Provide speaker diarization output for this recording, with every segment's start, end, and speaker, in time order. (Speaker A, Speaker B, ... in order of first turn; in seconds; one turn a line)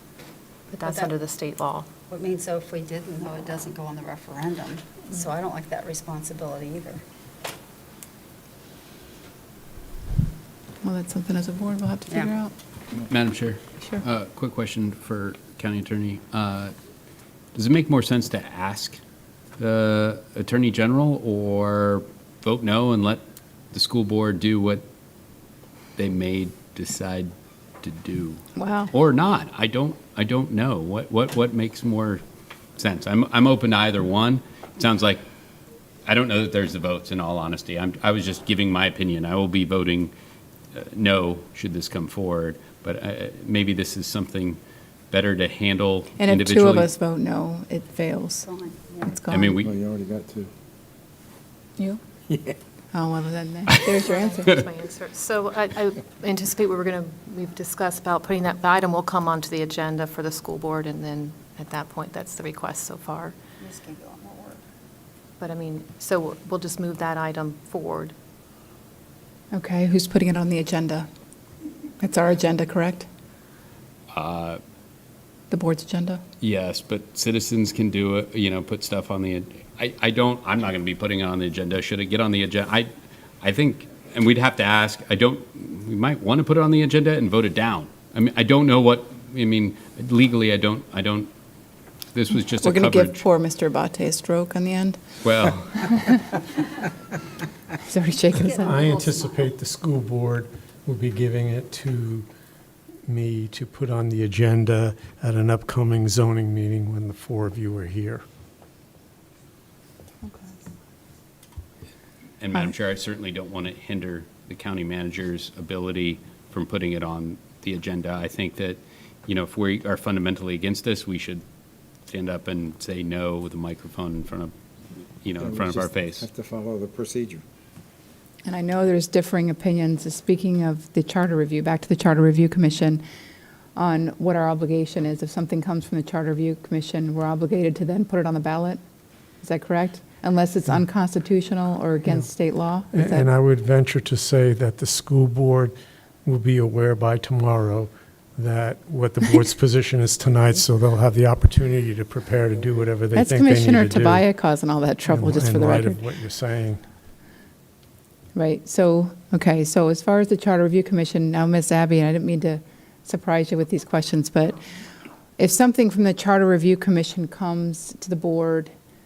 Speaker A: 0.7-1.9
Speaker B: 0.8-1.1
Speaker B: 2.1-7.0
Speaker C: 10.8-12.5
Speaker D: 13.1-16.7
Speaker D: 17.5-19.0
Speaker D: 19.6-24.8
Speaker D: 25.9-32.2
Speaker C: 28.6-28.9
Speaker D: 32.8-35.2
Speaker D: 36.0-40.1
Speaker D: 40.7-44.6
Speaker D: 45.1-46.9
Speaker C: 46.2-48.5
Speaker B: 48.4-49.1
Speaker C: 49.0-49.6
Speaker D: 49.3-49.8
Speaker E: 49.6-50.5
Speaker C: 52.9-54.5
Speaker A: 54.0-63.3
Speaker B: 63.6-64.6
Speaker A: 65.4-68.1
Speaker C: 69.5-71.1
Speaker C: 72.0-73.1
Speaker D: 74.1-74.6
Speaker C: 75.5-76.2
Speaker D: 76.4-82.9
Speaker D: 83.4-91.3
Speaker D: 92.1-93.2
Speaker C: 92.6-95.0
Speaker D: 95.2-96.0
Speaker C: 97.8-98.8
Speaker B: 98.3-99.5
Speaker F: 98.5-102.2
Speaker F: 103.1-108.2
Speaker C: 110.2-110.5
Speaker D: 112.4-121.4
Speaker D: 122.1-124.5
Speaker D: 125.2-126.3
Speaker E: 125.4-127.4
Speaker C: 128.4-133.0
Speaker C: 133.8-138.8
Speaker C: 139.4-143.3
Speaker F: 142.9-154.3
Speaker C: 153.1-156.0
Speaker F: 155.1-156.8
Speaker C: 158.3-164.6
Speaker C: 165.4-168.7